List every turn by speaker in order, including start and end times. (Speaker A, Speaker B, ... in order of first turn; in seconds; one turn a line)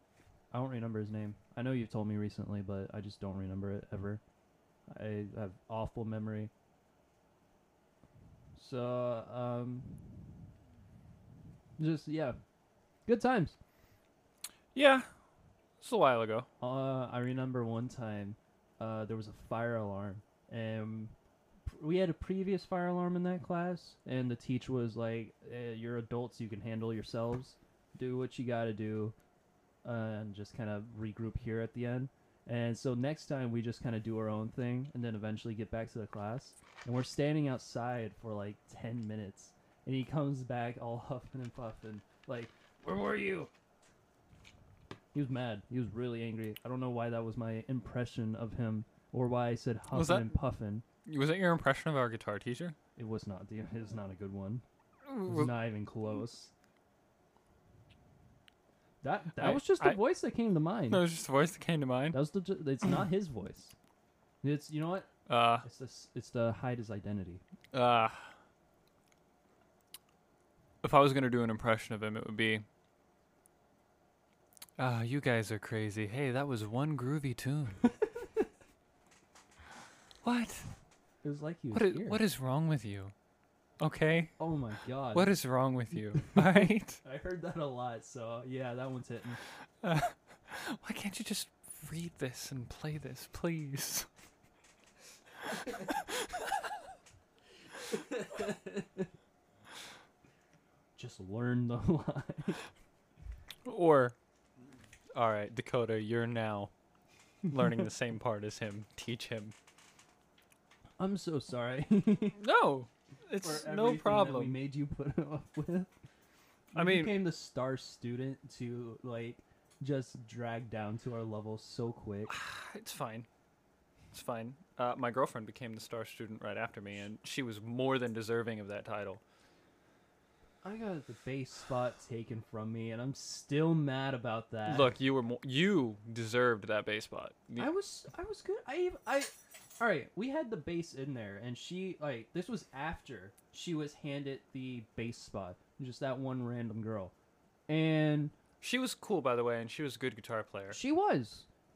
Speaker A: 0.5-4.2
Speaker A: 4.9-6.5
Speaker A: 8.6-10.3
Speaker A: 11.8-12.4
Speaker A: 13.1-13.6
Speaker B: 14.8-15.1
Speaker B: 15.8-16.5
Speaker A: 16.6-21.1
Speaker A: 21.6-29.1
Speaker A: 29.8-43.5
Speaker A: 45.1-50.9
Speaker B: 49.9-50.4
Speaker B: 51.1-52.8
Speaker A: 53.0-54.6
Speaker B: 55.1-55.5
Speaker A: 55.2-56.5
Speaker A: 59.0-61.0
Speaker B: 59.4-60.0
Speaker B: 60.9-62.2
Speaker A: 62.1-63.8
Speaker A: 64.4-65.1
Speaker B: 65.3-65.7
Speaker A: 65.6-67.4
Speaker B: 67.7-68.3
Speaker B: 70.8-72.7
Speaker B: 74.8-77.8
Speaker B: 80.2-80.7
Speaker A: 81.2-82.2
Speaker B: 81.7-83.1
Speaker B: 83.8-84.3
Speaker A: 84.4-85.4
Speaker B: 85.1-87.0
Speaker A: 86.3-89.4
Speaker B: 89.8-94.1
Speaker A: 97.9-99.0
Speaker A: 101.0-102.6
Speaker B: 103.7-104.2
Speaker B: 105.1-106.7
Speaker B: 107.5-109.5
Speaker A: 111.0-112.4
Speaker B: 112.4-114.6
Speaker A: 113.4-115.9
Speaker A: 116.7-122.3
Speaker B: 116.7-117.3
Speaker B: 122.3-123.3
Speaker B: 124.1-129.2
Speaker A: 130.6-134.9
Speaker B: 134.7-137.7
Speaker A: 137.6-147.1
Speaker A: 147.7-148.3
Speaker B: 148.6-150.8
Speaker A: 150.7-151.5